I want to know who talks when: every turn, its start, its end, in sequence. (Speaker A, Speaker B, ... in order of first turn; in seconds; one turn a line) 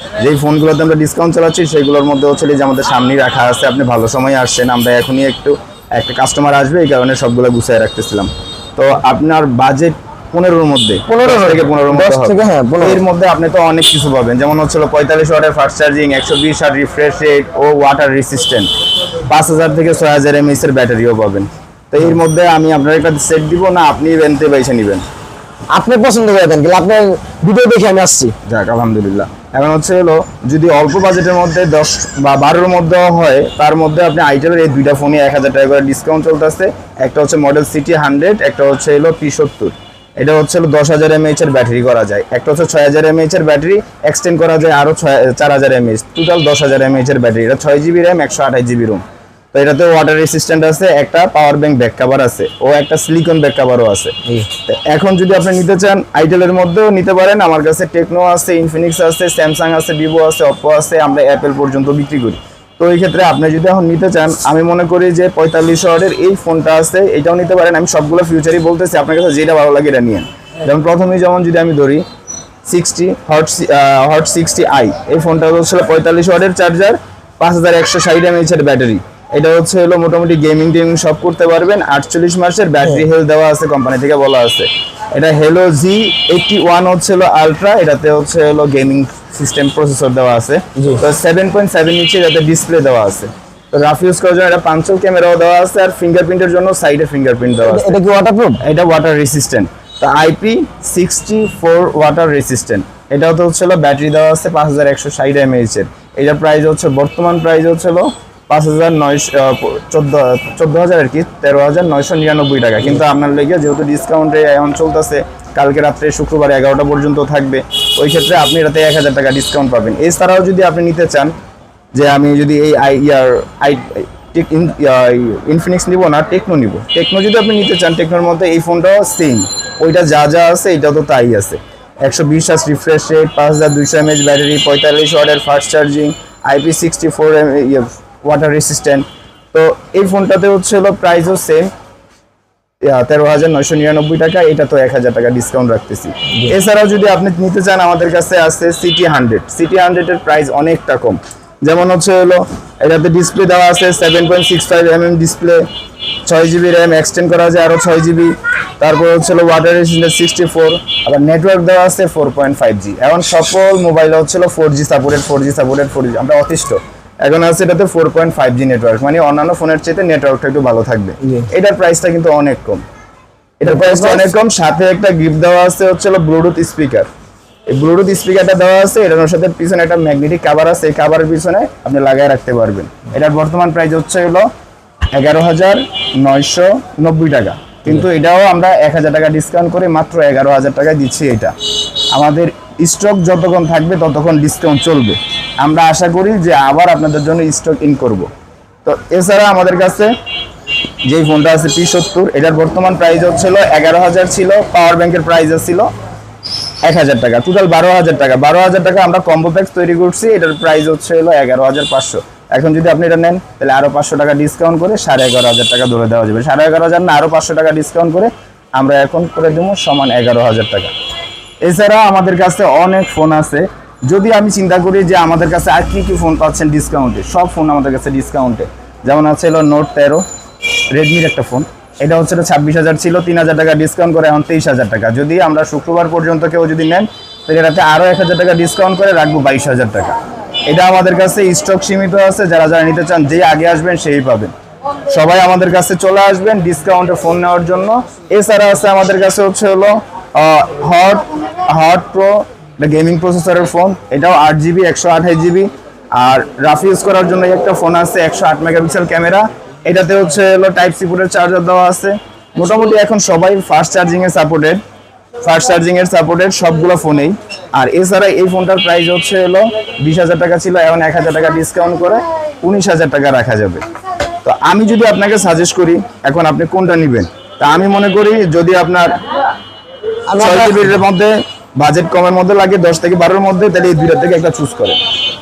Speaker A: 0.2-18.7
Speaker B: 11.1-13.0
Speaker A: 19.3-25.0
Speaker B: 25.7-28.4
Speaker A: 28.5-72.0
Speaker A: 72.7-98.0
Speaker B: 97.7-98.6
Speaker A: 98.6-121.3
Speaker A: 121.9-141.7
Speaker A: 142.8-155.7
Speaker A: 156.3-172.8
Speaker A: 173.6-177.1
Speaker B: 173.7-174.3
Speaker A: 177.7-184.5
Speaker A: 185.1-191.6
Speaker A: 192.1-198.3
Speaker A: 198.8-200.1
Speaker A: 201.1-205.9
Speaker A: 206.8-220.9
Speaker A: 221.6-230.2
Speaker A: 230.9-244.5
Speaker A: 245.1-264.8
Speaker A: 265.4-273.9
Speaker A: 274.4-279.2
Speaker B: 280.3-280.9
Speaker A: 280.4-285.0